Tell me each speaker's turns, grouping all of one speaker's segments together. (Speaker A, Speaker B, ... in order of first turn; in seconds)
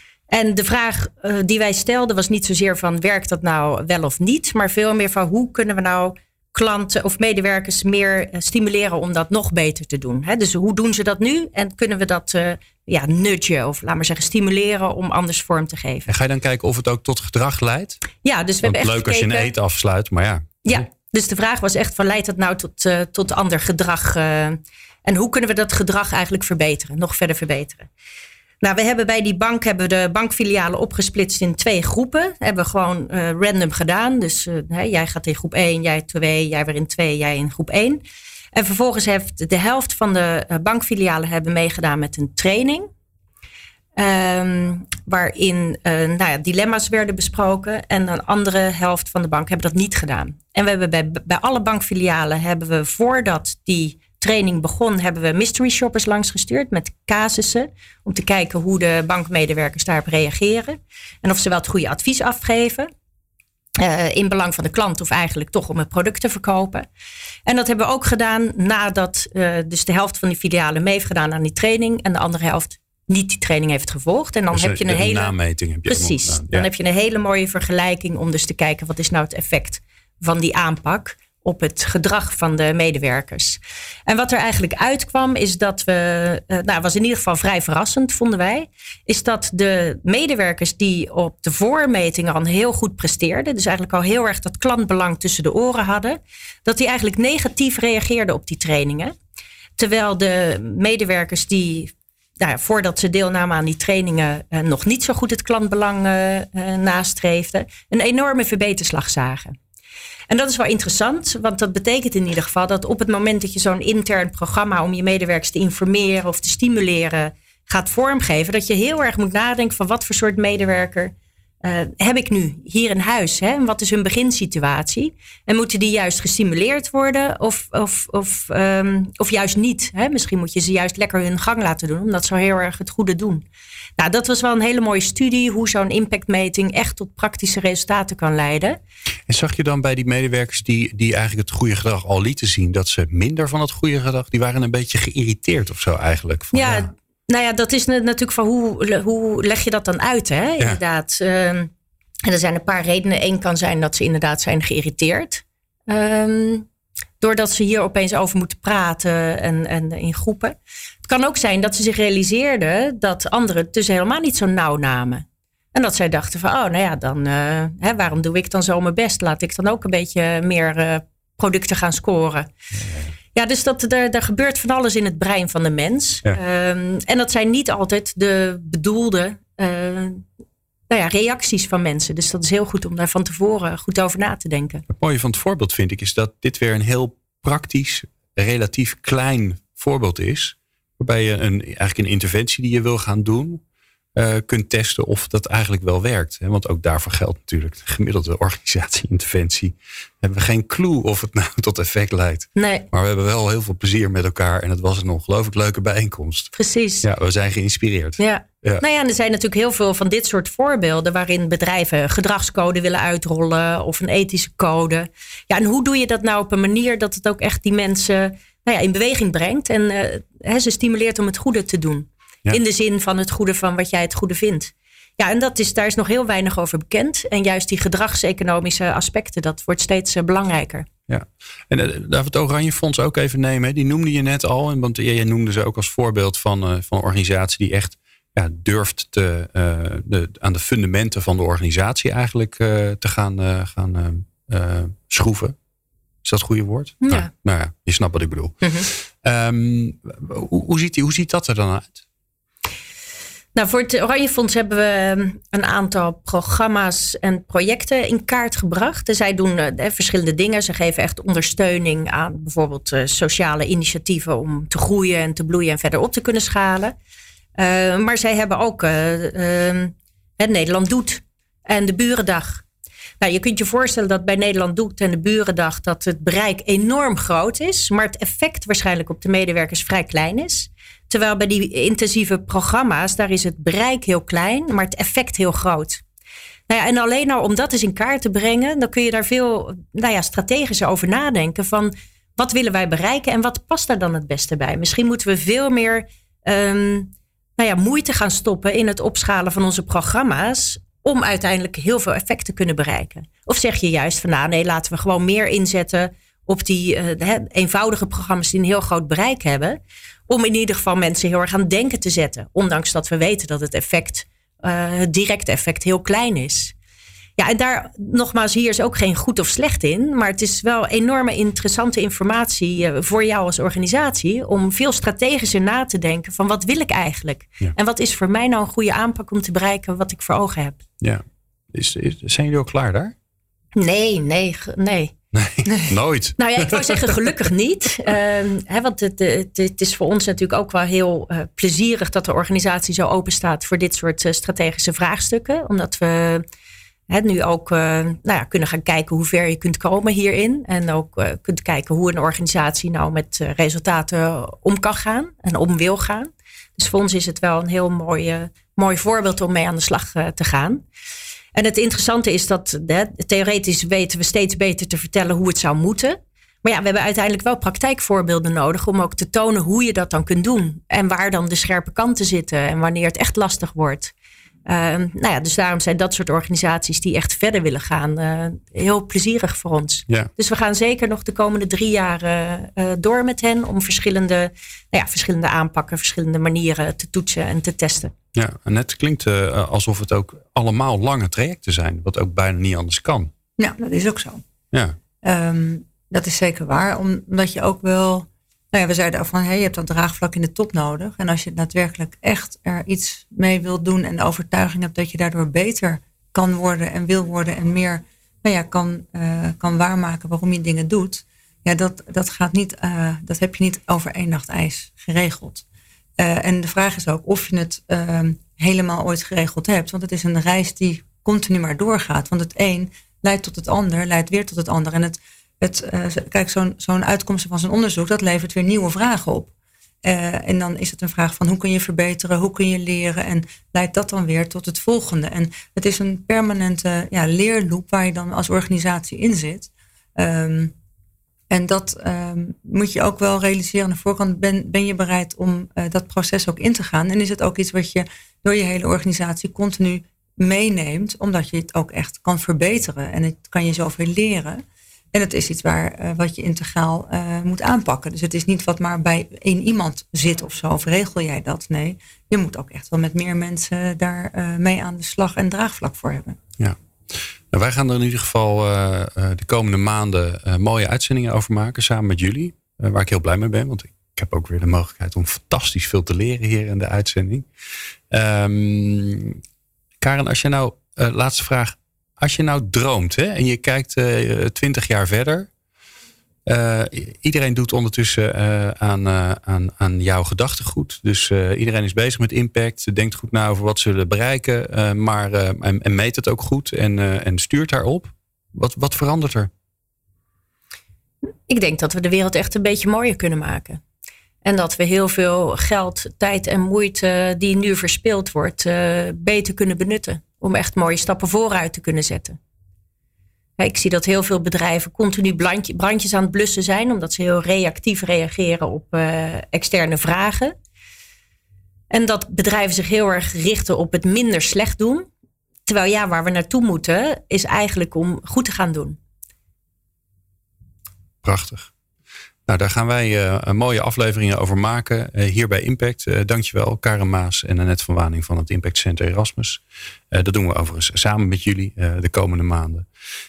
Speaker A: 0.3-16.1, 18.2-19.5, 20.6-27.9, 28.6-38.0, 38.5-42.9, 44.0-62.9, 63.8-66.8, 67.5-75.3, 75.8-99.1, 99.8-109.6, 110.3-133.4, 134.0-138.8, 146.5-151.7, 152.2-156.7, 157.2-172.5, 173.3-180.2, 180.9-184.8, 202.6-202.9, 206.5-207.1, 208.2-230.9, 247.0-247.3, 248.6-248.9, 253.5-266.9, 267.6-272.6, 273.2-286.0, 286.7-316.7, 317.4-330.8, 333.8-335.1, 336.4-346.4, 347.1-360.8, 361.5-374.1, 374.6-388.1, 501.5-503.8, 504.4-512.4, 513.6-520.5, 521.9-525.1, 525.6-529.0
Speaker B: 16.1-18.0, 18.6-20.8, 74.5-76.7, 139.3-146.9, 172.8-173.1, 184.9-193.6, 194.1-208.8, 231.1-245.5, 246.2-252.0, 331.0-333.1, 335.3-337.3, 388.3-393.3, 467.5-477.4, 478.1-479.4, 480.0-485.5, 486.4-499.5, 531.2-531.7, 532.5-542.9
Speaker C: 393.6-394.4, 395.2-415.6, 416.2-429.5, 430.0-440.7, 441.5-466.4